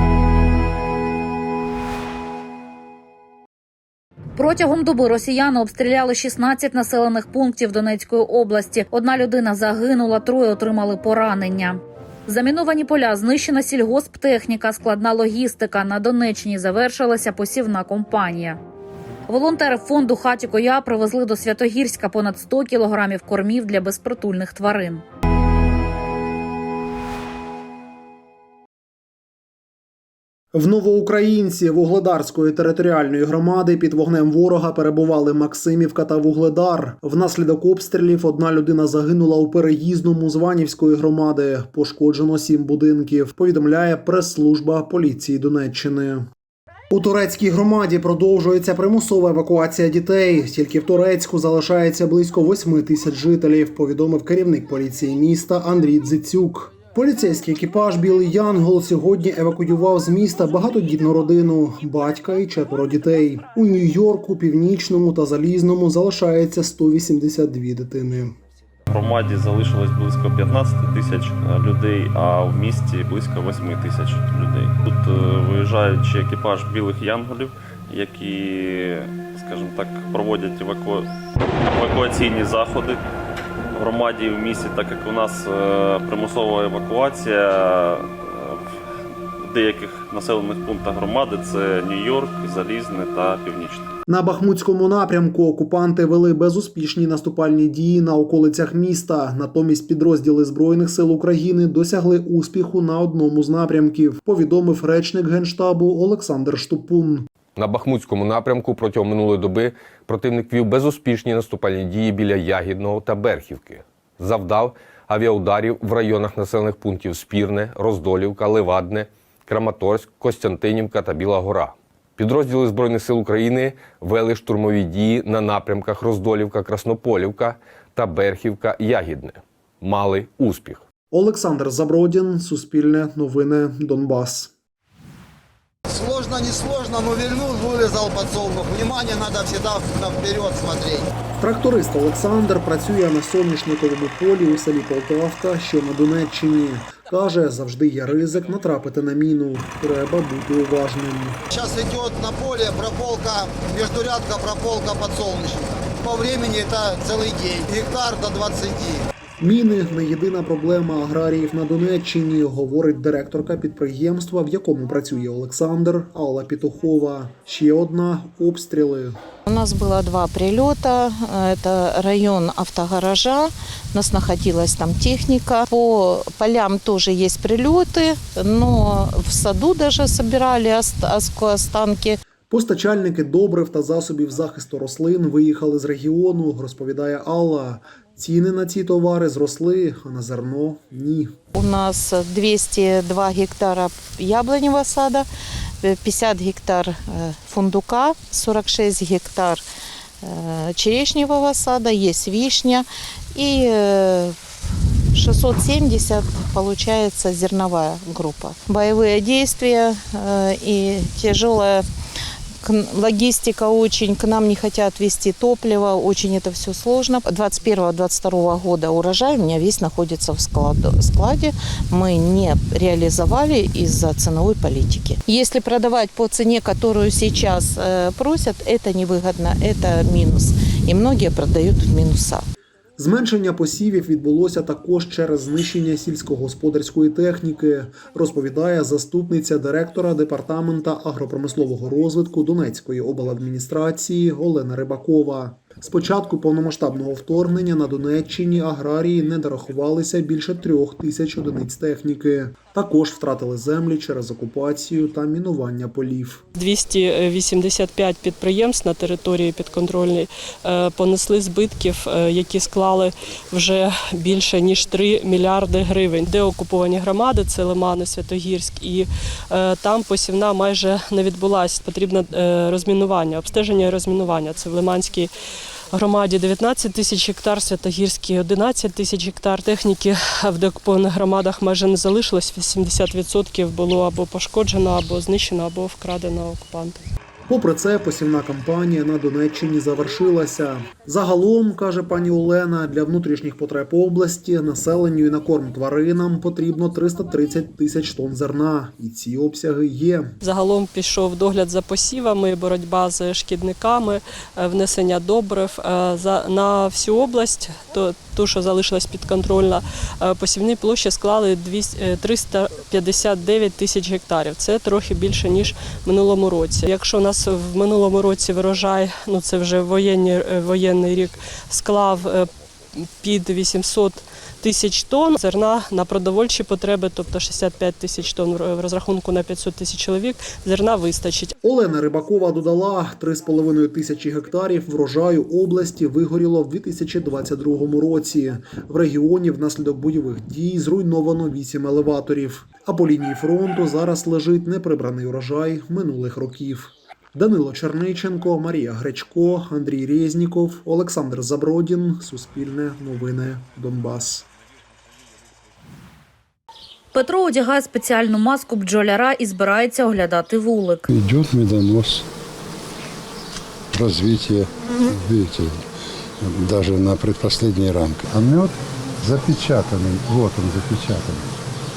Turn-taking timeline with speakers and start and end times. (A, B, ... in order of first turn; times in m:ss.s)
0:04.4-0:18.6 A
0:19.3-0:25.0 A
0:30.5-0:46.3 B
0:46.9-1:08.4 B
1:08.9-1:21.1 C
1:21.7-1:23.0 C
1:23.7-1:28.6 C
1:29.4-1:33.9 C
1:34.1-1:47.3 B
1:47.6-2:10.8 D
2:11.1-2:14.5 B
2:15.9-2:21.1 E
2:21.4-2:31.4 B
2:31.5-2:39.0 E
2:39.4-2:49.2 B
2:49.5-3:02.2 F
3:02.5-3:11.4 B
3:11.6-3:15.3 F
3:15.8-3:19.6 F
3:20.2-3:24.4 F
3:25.1-3:31.8 F
3:32.6-3:52.5 F
3:53.0-4:16.4 B
4:16.6-4:35.3 G
4:35.9-4:47.0 G
4:47.5-5:00.4 B
5:00.4-5:22.5 G
5:23.1-5:31.5 G
5:31.6-5:54.5 B
5:57.1-6:01.1 A
6:01.1-6:02.3 H
6:03.9-6:05.8 H
6:06.4-6:11.6 H